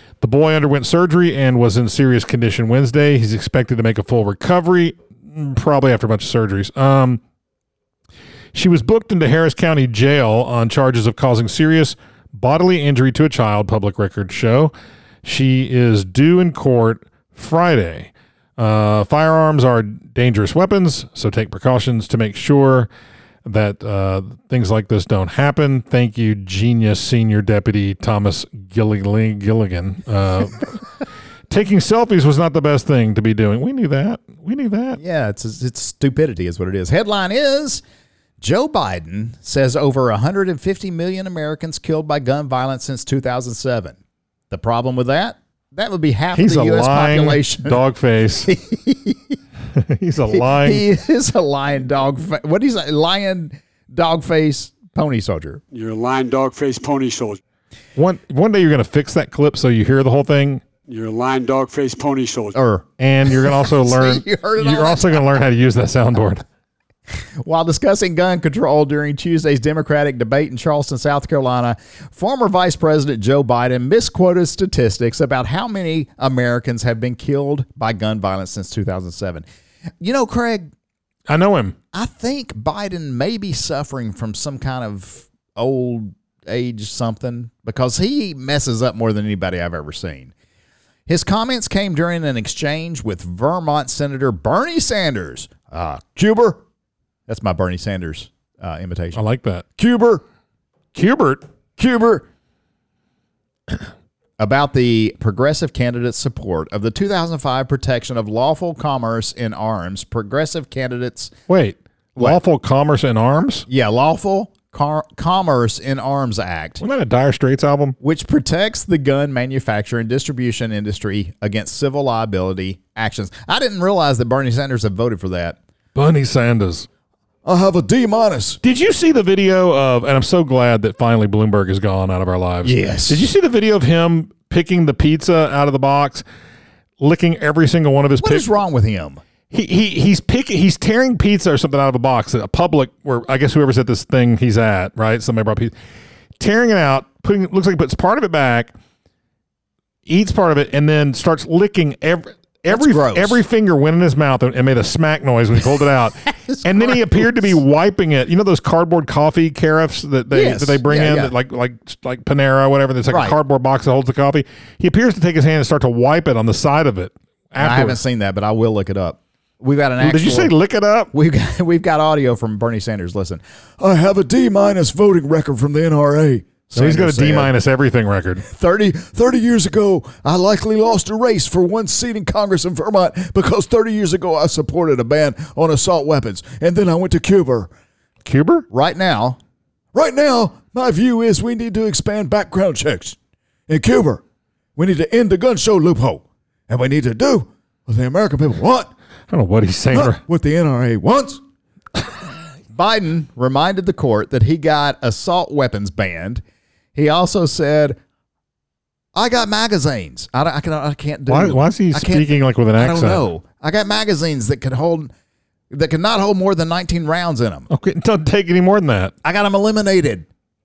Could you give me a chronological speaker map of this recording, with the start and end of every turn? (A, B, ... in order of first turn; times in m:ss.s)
0:00.2-0:07.2 A
0:08.5-0:14.7 A
0:15.2-0:22.9 A
0:23.4-0:30.8 A
0:31.5-0:35.0 A
0:35.0-0:37.8 B
0:38.4-0:44.0 B
0:44.5-0:47.8 B
0:46.3-0:48.5 A
0:48.4-0:49.4 B
0:49.7-0:50.8 A
0:50.3-0:55.6 B
0:55.7-0:57.4 C
0:58.0-1:00.6 A
1:00.9-1:02.6 C
1:02.5-1:05.2 B
1:03.0-1:06.4 A
1:07.4-1:19.4 B
1:20.0-1:20.7 B
1:21.3-1:21.8 A
1:21.9-1:30.3 B
1:31.1-1:36.6 B
1:37.3-1:39.2 B
1:39.1-1:39.6 A
1:39.8-1:40.2 B
1:40.9-1:41.4 A
1:41.8-1:42.2 B
1:44.4-1:51.3 B
1:51.5-1:53.6 A
1:53.7-1:56.8 B
1:56.8-1:58.0 A
1:58.0-2:05.6 B
2:05.9-2:06.9 A
2:07.4-2:08.6 B
2:08.6-2:16.2 A
2:12.6-2:13.3 B
2:17.0-2:18.5 A
2:18.2-2:19.2 B
2:19.5-2:25.7 A
2:26.4-2:28.7 A
2:30.1-2:48.0 A
2:32.7-2:33.4 B
2:36.3-2:37.5 B
2:40.3-2:41.3 B
2:43.1-2:43.4 B
2:47.6-2:50.5 B
2:50.0-2:51.1 A
2:51.1-2:57.5 B
2:56.7-2:58.4 A
2:58.4-3:07.7 B
3:08.2-3:08.6 A
3:08.7-3:09.4 B
3:09.9-3:13.2 B
3:13.7-3:14.2 B
3:14.8-3:18.9 B
3:19.3-3:20.2 A
3:19.9-3:21.4 B
3:22.7-3:26.4 B
3:26.9-3:28.0 B
3:29.1-3:35.1 B
3:31.3-3:33.2 A
3:35.7-3:37.7 B
3:37.7-3:39.1 A
3:39.2-3:40.3 B